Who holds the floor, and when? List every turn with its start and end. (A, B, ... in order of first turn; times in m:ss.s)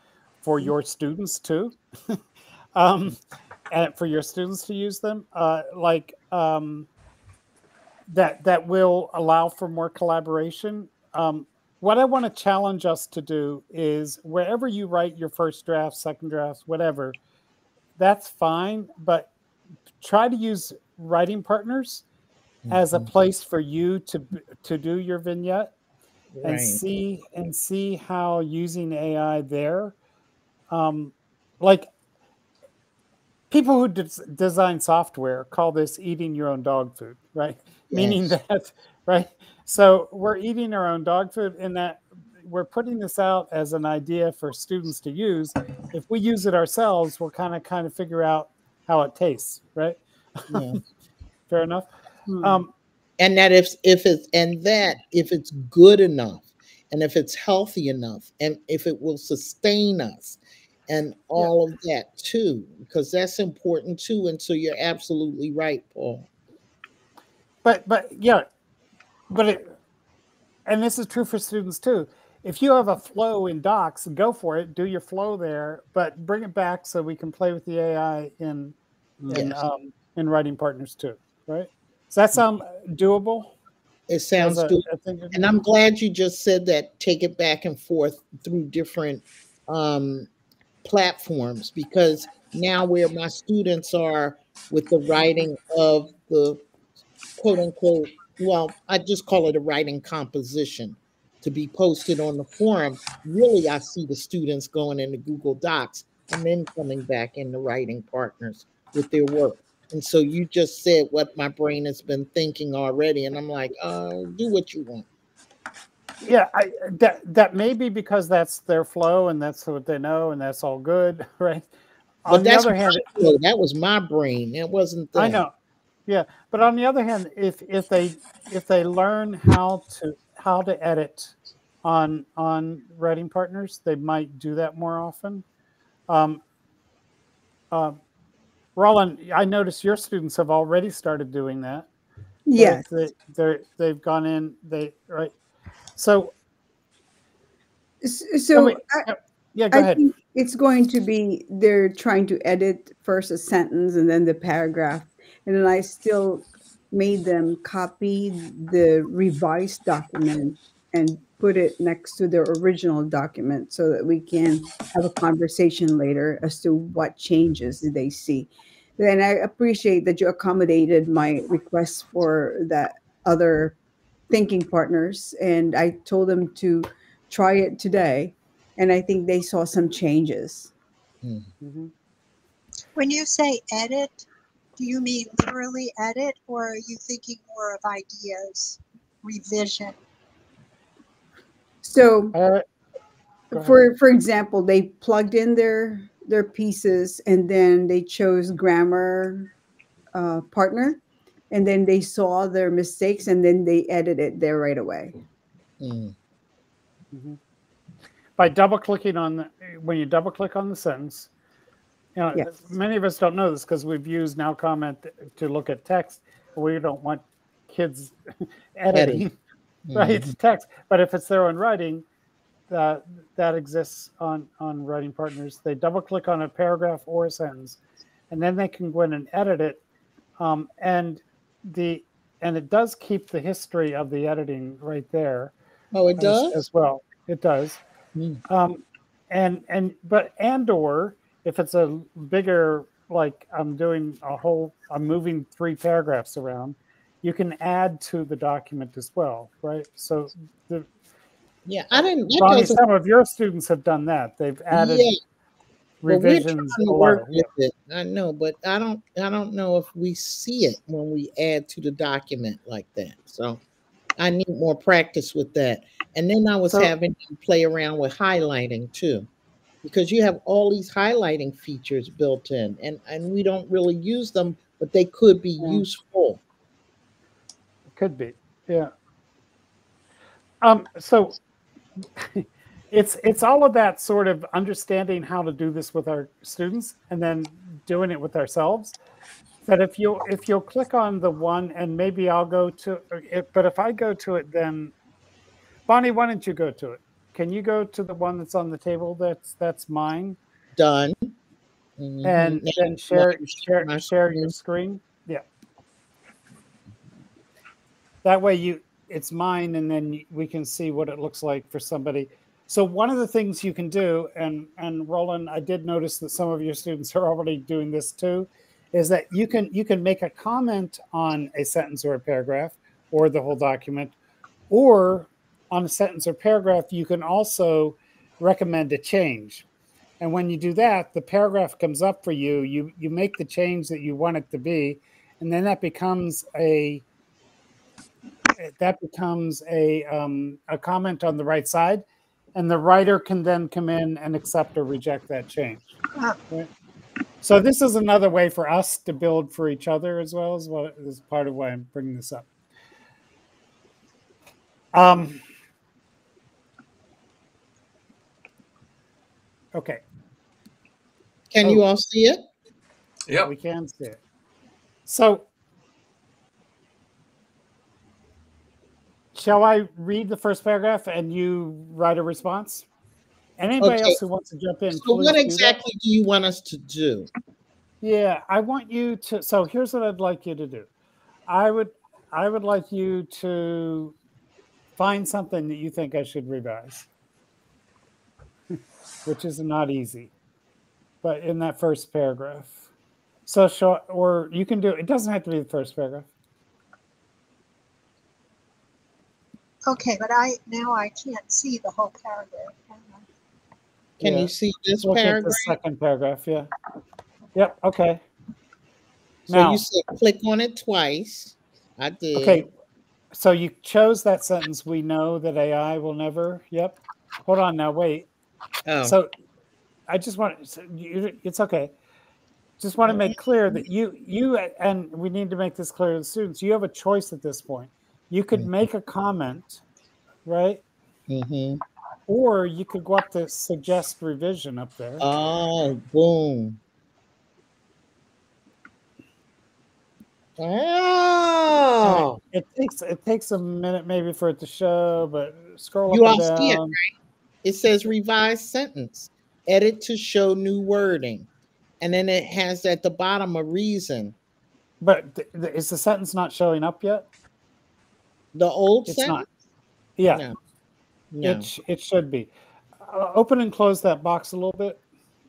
0:00.4-0:02.2 A
0:02.8-0:03.2 A
0:03.7-0:06.9 A
0:08.1-0:17.2 A
0:18.0-0:19.3 A
0:20.0-0:22.0 A
0:22.6-0:23.1 B
0:22.7-0:25.7 A
0:26.3-0:26.8 B
0:26.4-0:30.0 A
0:30.7-0:31.9 A
0:33.5-0:50.8 A
0:37.9-0:38.3 B
0:50.5-0:50.8 B
0:51.5-0:51.9 A
0:52.4-0:52.7 A
0:53.2-1:06.3 B
1:07.6-1:08.5 A
1:09.3-1:09.7 A
1:10.6-1:23.5 A
1:19.3-1:19.6 B
1:24.1-1:30.3 B
1:24.4-1:25.5 A
1:30.8-1:36.6 B
1:37.4-1:55.1 B
1:56.2-2:01.7 A
2:02.2-2:03.1 A
2:02.3-2:05.4 B
2:05.1-2:05.5 A
2:06.1-2:15.4 A
2:16.1-2:16.4 A
2:17.7-2:18.0 A
2:18.8-2:21.9 A
2:22.5-2:22.8 C
2:22.6-2:25.3 A
2:26.0-2:26.3 A
2:28.0-2:29.1 C
2:28.5-2:30.0 A
2:29.7-2:53.8 C
2:54.3-3:00.7 C
3:01.2-3:01.5 B
3:01.6-3:01.9 A
3:03.0-3:04.3 D
3:04.8-3:10.0 D
3:11.8-3:12.3 C
3:12.3-3:12.6 A
3:13.5-3:13.9 A
3:13.5-3:19.5 C
3:20.1-3:25.1 C
3:25.8-3:26.1 B
3:27.1-3:27.4 A
3:28.4-3:31.3 A
3:32.2-3:38.1 A
3:38.8-3:39.3 A
3:38.9-3:39.3 B
3:39.9-3:40.3 B
3:39.9-3:42.0 A
3:42.7-3:47.8 A
3:48.3-3:49.8 A
3:50.4-3:55.5 A
3:55.9-3:56.6 B
3:56.2-3:57.8 A
3:58.1-3:58.4 B
3:58.5-4:10.9 A
4:11.6-4:12.8 B
4:11.9-4:15.1 A
4:14.7-4:15.2 B
4:16.0-4:17.4 A
4:16.1-4:23.6 B
4:24.2-4:29.3 B
4:29.8-4:36.4 B
4:37.9-4:38.9 A
4:40.6-4:41.4 A
4:42.2-4:49.0 A
4:49.6-4:54.9 A
4:55.9-5:00.4 A
5:00.8-5:01.3 B
5:02.0-5:04.5 B
5:02.2-5:05.4 A
5:08.2-5:24.2 A
5:24.7-5:29.6 A
5:30.2-5:37.0 A
5:38.6-5:42.0 A
5:42.5-5:45.9 A
5:47.4-5:52.5 A
5:54.9-5:55.4 A
5:59.8-6:00.0 A
6:01.5-6:02.4 B
6:03.4-6:04.2 A
6:05.1-6:05.5 A
6:09.4-6:12.9 A
6:13.6-6:15.8 A
6:13.8-6:14.2 B
6:14.9-6:17.3 B
6:18.0-6:20.9 A
6:21.5-6:24.2 A
6:25.0-6:27.1 A
6:29.2-6:30.3 A
6:31.2-6:32.8 A
6:33.5-6:36.3 A
6:39.9-6:43.2 D
6:44.2-6:45.8 B
6:44.2-6:46.7 A
6:47.5-6:48.2 A
6:49.5-6:49.8 A
6:49.5-6:52.7 B
6:52.4-6:52.7 A
6:53.3-6:58.3 A
6:58.9-6:59.2 B
6:59.0-6:59.3 A
7:00.1-7:01.9 A
7:02.8-7:09.8 A
7:03.1-7:03.8 B
7:10.4-7:10.8 A
7:11.3-7:11.8 B
7:12.3-7:15.2 A
7:15.2-7:16.8 B
7:20.6-7:22.4 B
7:22.0-7:27.0 A
7:26.1-7:27.1 B
7:27.6-7:31.5 B
7:32.0-7:34.4 B
7:35.0-7:37.3 A
7:38.5-7:39.4 B
7:39.1-7:39.4 A
7:40.2-7:40.4 A
7:40.3-7:40.5 B
7:41.3-7:41.7 B
7:41.4-7:45.0 A